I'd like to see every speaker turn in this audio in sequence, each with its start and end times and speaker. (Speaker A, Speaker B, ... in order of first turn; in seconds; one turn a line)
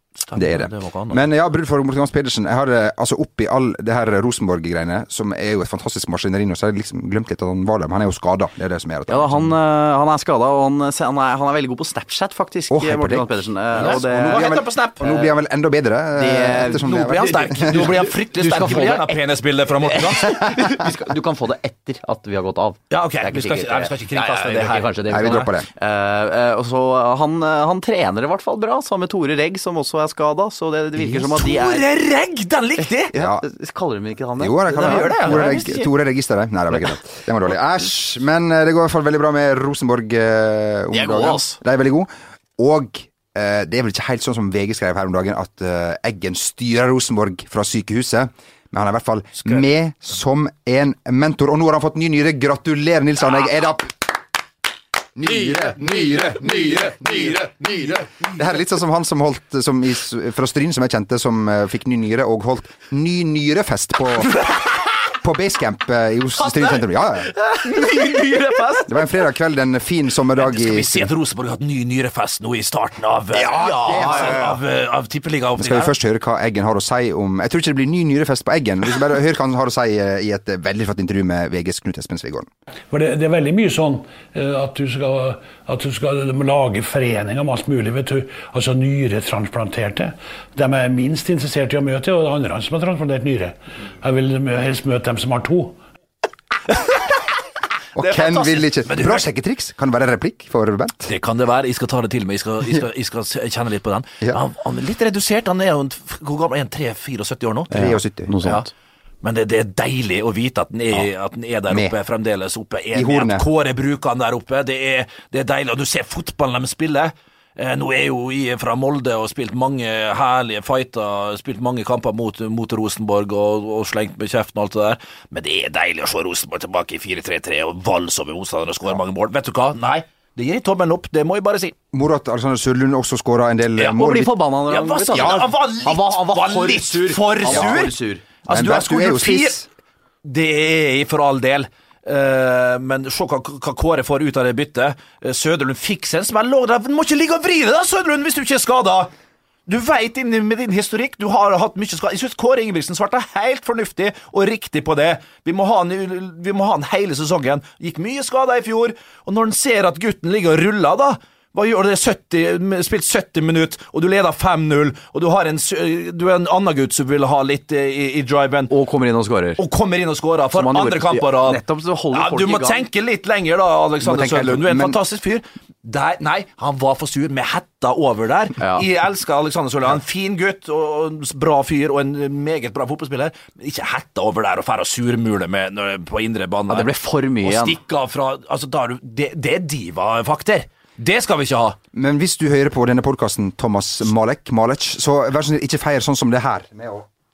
Speaker A: 0.3-1.2
Speaker B: 0.3-9.5
Speaker C: 9.1-14.5
Speaker B: 12.7-17.9
Speaker A: 13.7-15.2
Speaker C: 16.1-19.2
Speaker A: 16.8-20.4
Speaker C: 19.9-31.9
Speaker A: 22.9-25.5
Speaker B: 25.1-25.7
Speaker A: 30.9-33.1
Speaker C: 33.1-35.9
Speaker B: 33.1-33.4
Speaker B: 34.4-54.1
Speaker A: 34.7-35.8
Speaker C: 40.9-41.6
Speaker A: 49.4-49.6
Speaker B: 55.1-64.4
Speaker B: 65.1-67.3
Speaker A: 66.4-66.8
Speaker A: 67.5-68.9
Speaker B: 68.9-71.1
Speaker A: 70.4-75.9
Speaker B: 73.3-74.5
Speaker C: 74.0-74.5
Speaker B: 75.6-82.5
Speaker D: 82.9-95.8
Speaker B: 98.0-101.1
Speaker A: 98.0-99.2
Speaker A: 101.0-108.7
Speaker B: 107.7-108.3
Speaker C: 107.8-108.7
Speaker A: 109.2-131.7
Speaker B: 112.9-113.4
Speaker B: 131.9-134.3
Speaker A: 133.8-139.6
Speaker C: 134.0-138.3
Speaker B: 135.2-135.4
Speaker B: 138.4-139.7
Speaker A: 140.2-149.1
Speaker A: 149.7-168.7
Speaker C: 168.7-169.6
Speaker A: 169.6-191.8
Speaker C: 170.5-172.8
Speaker B: 174.0-175.0
Speaker C: 178.6-178.8
Speaker C: 186.7-187.8
Speaker B: 191.9-197.1